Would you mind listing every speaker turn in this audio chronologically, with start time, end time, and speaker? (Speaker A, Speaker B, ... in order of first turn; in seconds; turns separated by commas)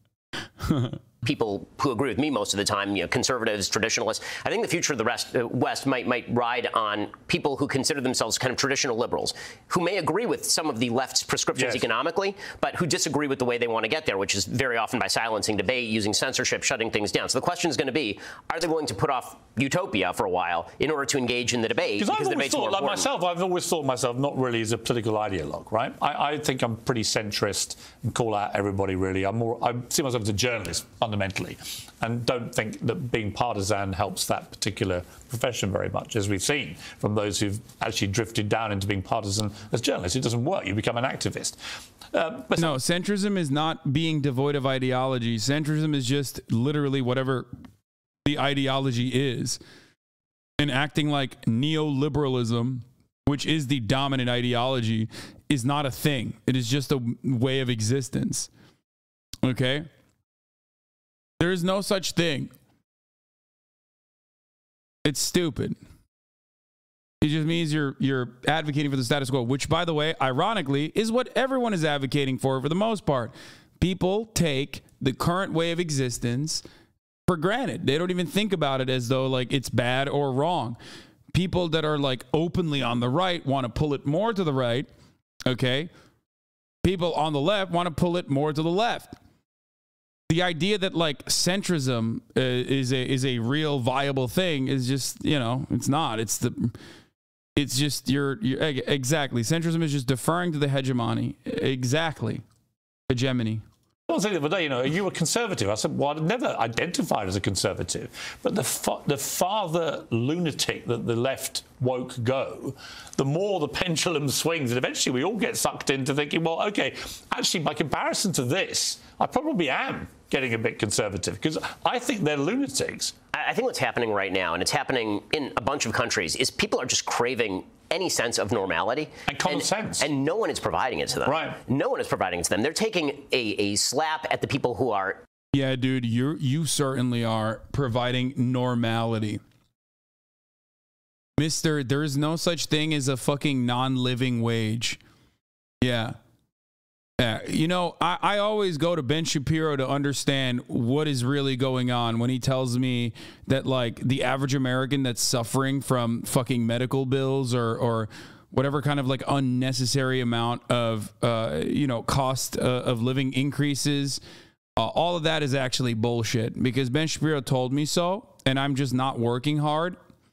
Speaker A: 0.6-1.0, Speaker B: 1.2-23.1, Speaker C: 11.6-11.8, Speaker C: 22.0-42.8, Speaker A: 42.5-47.5, Speaker A: 48.2-49.6, Speaker A: 50.6-58.5, Speaker A: 59.4-59.9, Speaker A: 61.4-62.5, Speaker A: 65.0-65.8, Speaker A: 67.2-76.6, Speaker A: 77.3-80.8, Speaker A: 81.3-84.9, Speaker A: 85.5-85.9, Speaker A: 86.8-89.2, Speaker A: 90.3-96.8, Speaker A: 97.5-102.4, Speaker A: 103.1-103.6, Speaker C: 104.1-123.1, Speaker B: 123.3-135.2, Speaker C: 129.3-130.1, Speaker C: 131.2-131.6, Speaker A: 135.5-139.4, Speaker A: 141.4-145.0, Speaker A: 145.8-146.2, Speaker A: 147.2-164.2, Speaker A: 164.8-170.0